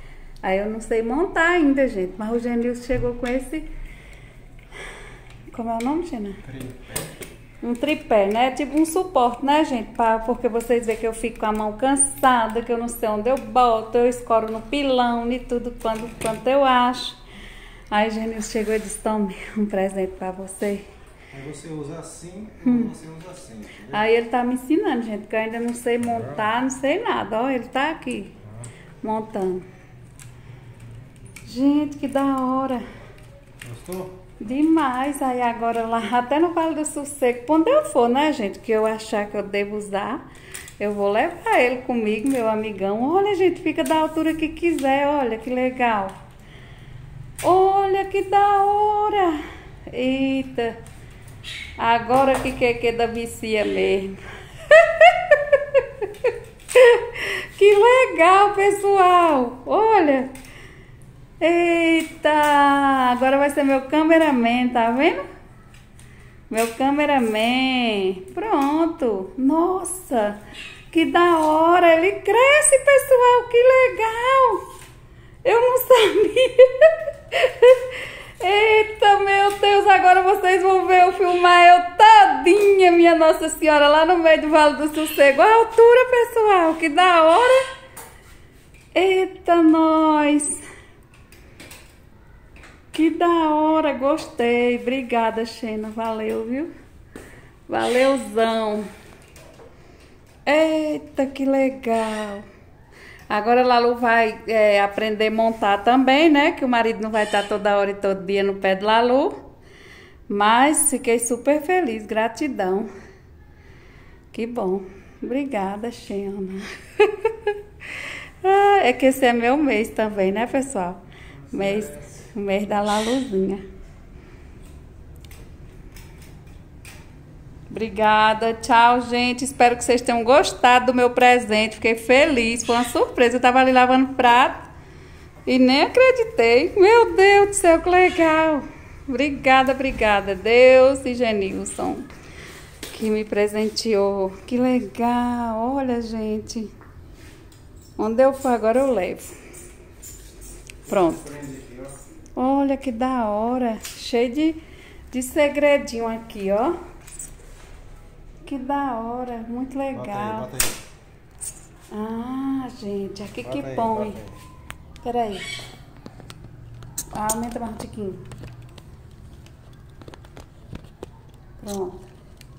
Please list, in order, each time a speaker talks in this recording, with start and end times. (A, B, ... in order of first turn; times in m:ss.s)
0:00.4-0:03.7 A
0:05.5-0:06.5 A
0:06.4-0:07.1 B
0:07.6-0:17.2 A
0:17.9-0:20.9 A
0:21.3-0:24.0 B
0:22.6-0:23.0 A
0:23.9-0:28.4 A
0:26.1-0:26.4 B
0:29.0-0:29.6 A
0:31.4-0:32.8 A
0:33.6-0:34.2 B
0:34.4-0:40.2 A
0:40.8-0:46.2 A
0:47.4-0:50.8 A
0:51.8-1:00.3 A
1:01.4-1:05.2 A
1:06.5-1:10.4 A
1:10.9-1:14.7 A
1:15.4-1:27.6 A
1:28.9-1:30.6 A
1:32.9-1:36.7 A
1:37.7-1:38.9 A
1:40.4-1:42.5 A
1:43.3-1:49.4 A
1:50.3-1:52.9 A
1:54.3-2:03.6 A
2:01.4-2:02.3 B
2:07.7-2:14.7 A
2:15.4-2:22.1 A
2:22.9-2:26.7 A
2:28.0-2:29.4 A
2:30.9-2:31.2 A
2:30.9-2:32.0 B
2:32.4-2:36.8 A
2:38.4-2:40.5 A
2:39.9-2:40.8 B
2:41.9-2:44.2 A
2:43.4-2:44.4 B
2:45.0-2:45.5 A
2:47.1-2:48.2 A
2:51.6-2:52.1 A